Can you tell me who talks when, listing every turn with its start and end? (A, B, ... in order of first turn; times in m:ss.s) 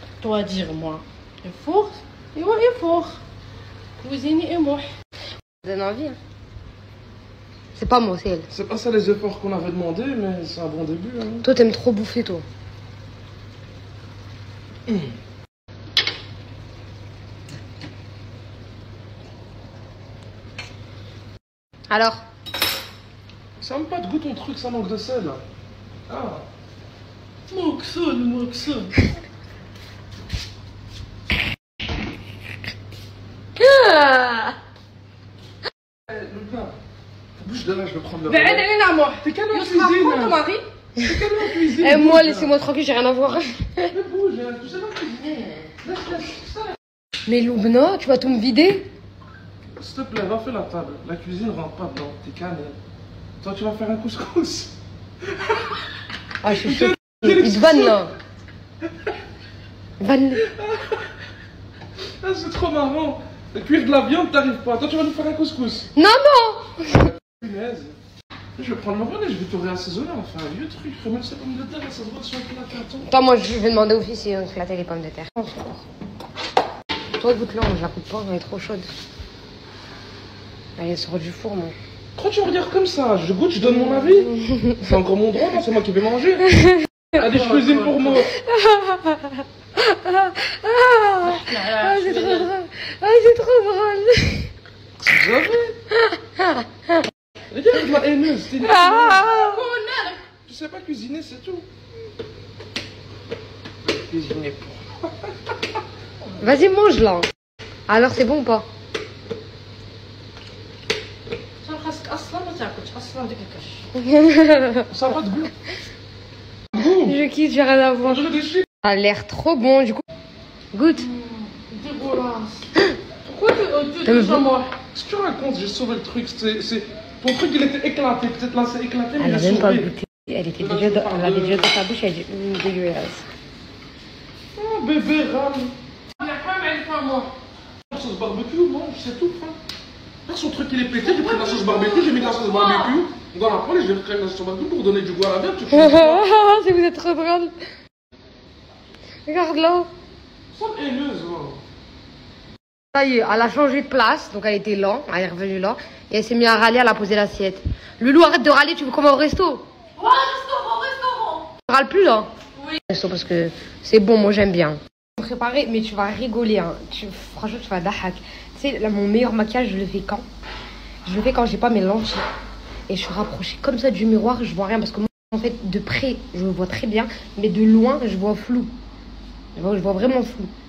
0:00.2-0:03.2 A
0:04.0-0:04.9 A
0:05.6-0:06.2 B
0:07.8-0:08.5 B
0:08.5-0:11.5 C
0:11.4-0:12.4 B
0:14.9-0:15.1 C
0:21.9-0:22.2 B
0:23.6-0:25.4 C
0:26.1-0:26.5 C
0:27.5-0:28.9 A
0:33.6-0:34.6 B
0:36.1-0:36.8 C
0:37.4-0:38.7 C
0:38.3-0:40.6 A
0:39.2-0:40.4 C
0:41.0-0:42.5 C
0:41.6-0:43.9 B
0:43.9-0:46.8 C
0:47.2-0:48.9 B
0:49.8-0:52.8 C
0:53.4-0:55.8 C
0:56.4-0:58.2 B
0:56.4-0:58.1 C
1:00.0-1:00.5 B
1:00.4-1:01.1 C
1:02.2-1:05.9 C
1:06.0-1:07.1 B
1:06.9-1:08.0 C
1:08.6-1:13.1 C
1:13.0-1:15.8 B
1:17.2-1:18.9 B
1:20.8-1:21.8 B
1:22.2-1:26.5 C
1:23.6-1:24.8 B
1:26.6-1:26.8 B
1:27.1-1:28.4 C
1:27.2-1:28.2 A
1:28.2-1:34.5 B
1:31.2-1:32.5 A
1:35.0-1:35.8 C
1:35.9-1:37.0 B
1:37.5-1:39.3 C
1:38.6-1:39.7 B
1:38.8-1:40.2 A
1:40.5-1:41.7 C
1:43.8-1:45.6 C
1:46.4-1:47.3 B
1:47.9-1:48.7 B
1:51.6-1:53.9 A
1:54.0-1:54.9 B
1:54.9-1:55.5 C
1:56.7-1:57.2 C
1:56.8-2:00.0 B
1:58.1-1:58.7 C
2:00.7-2:01.1 B
2:01.0-2:02.7 A
2:03.2-2:04.7 A
2:04.0-2:04.5 B
2:04.9-2:09.9 C
2:09.2-2:13.3 B
2:10.6-2:11.7 C
2:14.5-2:15.7 C
2:16.1-2:17.3 A
2:17.9-2:19.6 C
2:20.3-2:26.3 C
2:21.0-2:23.0 A
2:25.7-2:27.6 B
2:29.3-2:29.9 B
2:30.5-2:31.6 C
2:32.9-2:39.6 B
2:40.0-2:41.5 A
2:41.6-2:42.3 B
2:42.9-2:50.3 B
2:51.0-2:52.2 B
2:52.9-2:58.7 B
2:59.6-3:00.5 B